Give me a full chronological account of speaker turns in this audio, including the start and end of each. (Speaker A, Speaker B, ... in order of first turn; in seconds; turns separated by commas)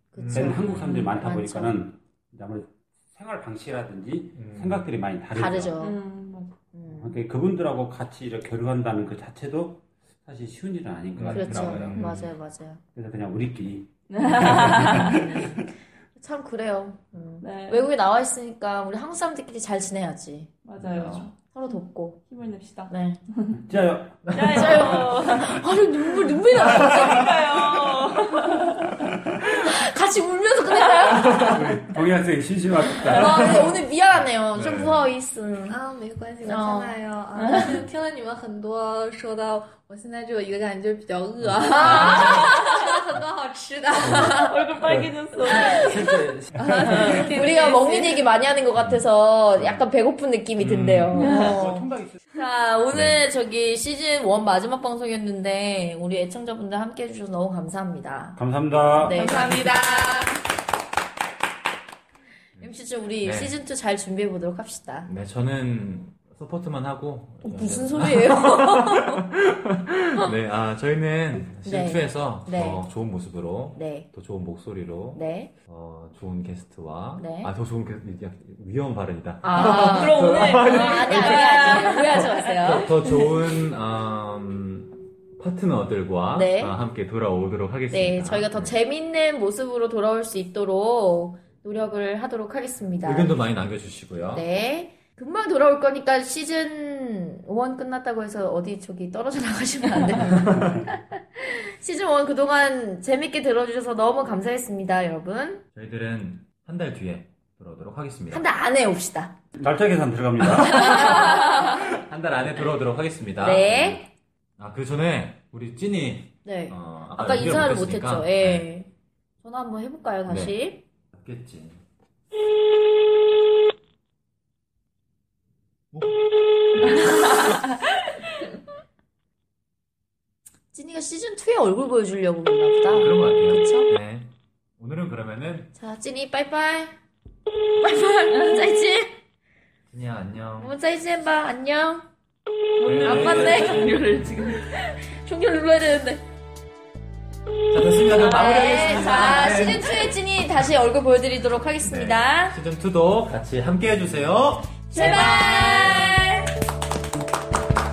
Speaker A: 0.1-1.8, Speaker B: 0.2-1.1, Speaker C: 0.3-5.8, Speaker B: 4.3-4.9, Speaker A: 5.3-6.0, Speaker D: 5.8-6.6, Speaker A: 6.7-7.2, Speaker C: 6.9-12.0, Speaker B: 11.2-12.3, Speaker A: 11.3-12.8, Speaker C: 12.9-15.6, Speaker D: 14.1-15.2, Speaker A: 14.3-20.5, Speaker D: 17.4-17.9, Speaker D: 20.6-21.3, Speaker B: 20.8-21.3, Speaker A: 21.4-22.2, Speaker D: 22.3-23.6, Speaker A: 22.9-23.2, Speaker C: 23.6-24.9, Speaker D: 24.3-25.6, Speaker B: 24.3-24.8, Speaker A: 24.5-27.6, Speaker D: 26.6-29.1, Speaker A: 29.6-31.6, Speaker B: 31.1-31.5, Speaker C: 31.3-33.8, Speaker A: 33.1-35.8, Speaker B: 34.5-35.1, Speaker E: 35.7-44.1, Speaker A: 36.4-37.8, Speaker D: 37.4-37.8, Speaker A: 41.6-43.1, Speaker D: 42.1-42.6, Speaker A: 43.8-44.6, Speaker D: 44.1-46.0, Speaker C: 44.8-47.3, Speaker A: 45.4-46.2, Speaker D: 46.6-48.2, Speaker A: 46.8-58.4, Speaker B: 48.8-49.0, Speaker B: 49.6-49.9, Speaker B: 50.6-51.4, Speaker C: 51.2-52.2, Speaker D: 51.3-51.6, Speaker B: 52.9-53.2, Speaker C: 58.4-59.2, Speaker A: 59.0-60.3, Speaker D: 59.1-60.3, Speaker A: 62.6-65.1, Speaker B: 63.2-63.5, Speaker B: 65.1-88.8, Speaker A: 67.4-69.2, Speaker A: 71.6-72.9, Speaker A: 73.8-74.1, Speaker A: 75.1-75.5, Speaker A: 77.2-77.5, Speaker A: 79.4-82.9, Speaker D: 79.5-82.5, Speaker A: 86.3-86.8, Speaker A: 87.9-93.3, Speaker B: 93.0-94.5, Speaker A: 94.3-105.6, Speaker B: 100.3-100.8, Speaker C: 100.3-100.8, Speaker B: 105.7-108.5, Speaker A: 108.3-109.4, Speaker C: 109.5-111.2, Speaker B: 110.4-114.1, Speaker A: 110.6-111.8, Speaker A: 113.4-114.1, Speaker B: 114.6-118.7, Speaker A: 116.4-118.9, Speaker A: 119.4-120.8, Speaker B: 120.3-120.6, Speaker B: 121.1-121.8, Speaker B: 125.9-126.2, Speaker B: 126.7-127.4, Speaker D: 127.0-127.6, Speaker A: 130.7-133.9, Speaker B: 132.9-135.7, Speaker A: 135.7-137.0, Speaker A: 137.8-139.2, Speaker B: 139.9-140.7, Speaker A: 140.6-142.1, Speaker D: 142.8-144.7, Speaker B: 142.8-144.2, Speaker A: 143.0-146.2, Speaker B: 147.7-150.2, Speaker A: 148.2-152.6, Speaker D: 148.9-149.2, Speaker B: 151.8-156.2, Speaker A: 154.9-156.5, Speaker D: 155.0-156.0